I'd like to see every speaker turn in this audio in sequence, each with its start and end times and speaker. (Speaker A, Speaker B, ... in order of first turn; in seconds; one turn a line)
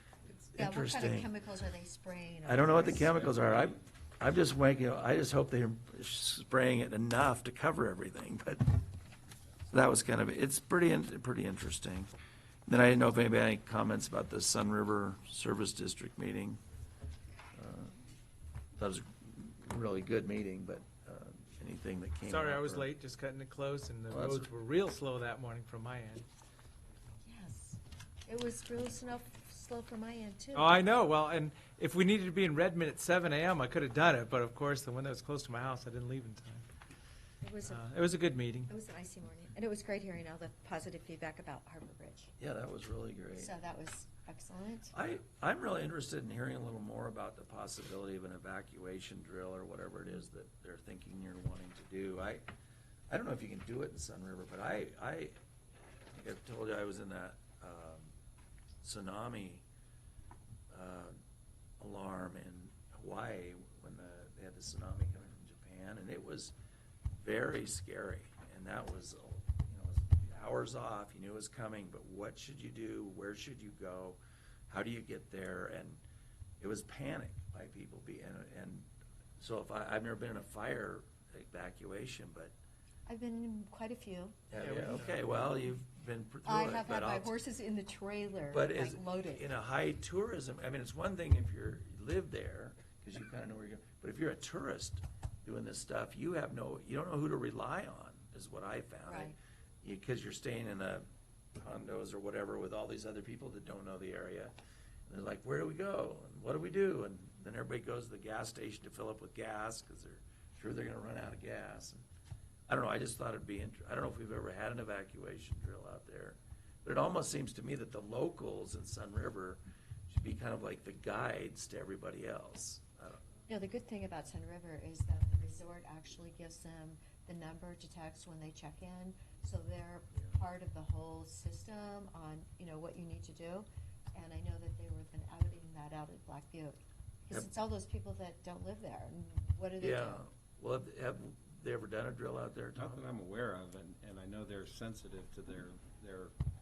Speaker A: 0.3-3.1
Speaker B: 0.5-1.3
Speaker B: 2.5-8.7
Speaker C: 2.9-3.9
Speaker B: 9.7-12.1
Speaker B: 12.7-16.6
Speaker B: 17.5-17.9
Speaker B: 18.8-22.9
Speaker D: 22.2-26.2
Speaker B: 24.1-24.5
Speaker A: 27.2-30.8
Speaker D: 30.5-36.7
Speaker A: 37.4-37.8
Speaker D: 37.6-38.7
Speaker A: 38.7-42.3
Speaker B: 42.4-43.5
Speaker A: 43.4-44.9
Speaker B: 44.9-52.4
Speaker B: 53.1-55.4
Speaker B: 56.1-58.1
Speaker B: 58.8-59.6
Speaker B: 60.7-61.2
Speaker B: 61.8-66.5
Speaker B: 67.1-76.0
Speaker B: 76.6-82.5
Speaker A: 83.1-84.4
Speaker B: 84.5-87.3
Speaker D: 84.6-85.2
Speaker A: 86.4-89.5
Speaker B: 88.5-104.5
Speaker A: 99.1-99.3
Speaker B: 105.1-112.0
Speaker B: 112.7-123.2
Speaker A: 123.5-140.2
Speaker B: 139.8-143.0
Speaker C: 142.7-146.3